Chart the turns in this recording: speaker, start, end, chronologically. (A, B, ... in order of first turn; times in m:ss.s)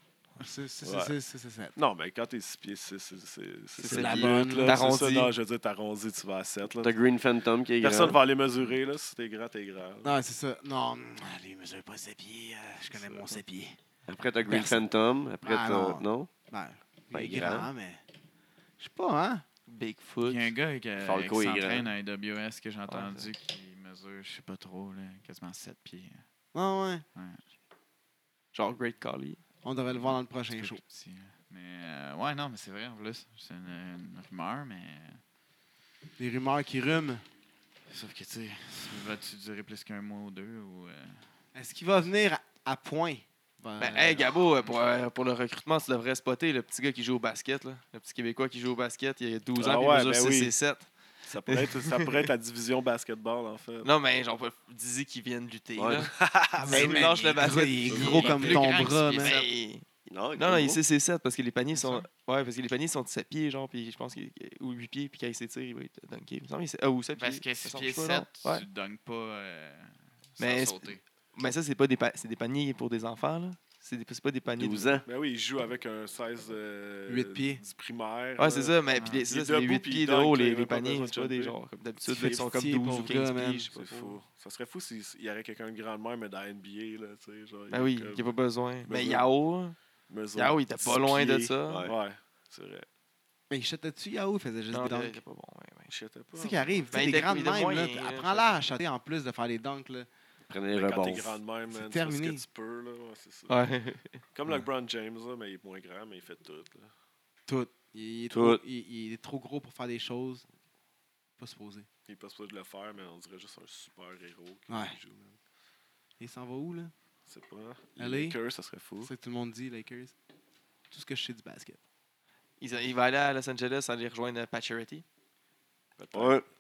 0:00.4-0:01.8 A
0:00.8-0:01.2 B
0:01.8-0:07.0 B
0:03.8-0:05.4 C
0:03.9-0:04.8 A
0:06.8-0:08.2 D
0:07.8-0:10.2 B
0:10.0-0:13.8 A
0:12.9-0:13.4 B
0:14.1-0:16.3 D
0:14.4-0:14.8 A
0:15.4-0:18.0 A
0:17.1-0:17.7 D
0:18.8-0:19.4 A
0:19.7-0:20.5 C
0:20.2-0:26.2 E
0:21.0-0:21.9 D
0:22.9-0:23.3 C
0:26.5-0:27.1 A
0:27.2-0:27.4 E
0:28.5-0:29.4 C
0:29.6-0:30.8 A
0:29.9-0:35.2 E
0:36.2-0:37.2 A
0:37.9-0:41.2 E
0:41.5-0:44.3 A
0:43.8-0:50.9 C
0:49.6-0:50.5 B
0:51.2-0:53.9 B
0:51.5-0:52.2 C
0:53.8-0:56.1 C
0:55.8-0:56.1 D
0:56.2-0:57.1 B
0:56.6-0:59.4 A
0:56.6-1:08.7 C
0:56.7-0:59.5 E
1:00.1-1:00.8 D
1:01.7-1:02.1 E
1:07.2-1:11.0 E
1:10.4-1:15.0 C
1:14.6-1:15.0 D
1:15.0-1:21.6 B
1:17.1-1:17.6 A
1:18.4-1:24.2 C
1:19.0-1:19.2 E
1:22.0-1:23.7 A
1:23.7-1:28.3 B
1:27.7-1:29.8 C
1:28.9-1:29.3 B
1:30.1-1:32.9 B
1:30.4-1:31.9 C
1:31.7-1:31.9 D
1:33.5-1:35.2 A
1:34.7-1:35.9 C
1:35.9-1:37.0 B
1:36.3-1:40.1 A
1:36.9-1:38.6 C
1:40.5-1:41.4 D
1:40.8-1:43.5 B
1:41.7-1:42.4 A
1:43.5-1:44.2 C
1:44.3-1:46.9 B
1:47.5-1:50.4 A
1:48.3-1:48.6 D
1:51.4-1:51.9 A
1:52.1-1:55.4 B
1:54.7-1:55.0 A
1:56.2-1:56.9 A
1:57.3-1:59.1 B
1:58.0-1:58.4 A
1:59.0-2:00.1 A
2:00.9-2:01.8 A
2:02.6-2:05.0 C
2:06.0-2:06.4 B
2:06.1-2:06.5 D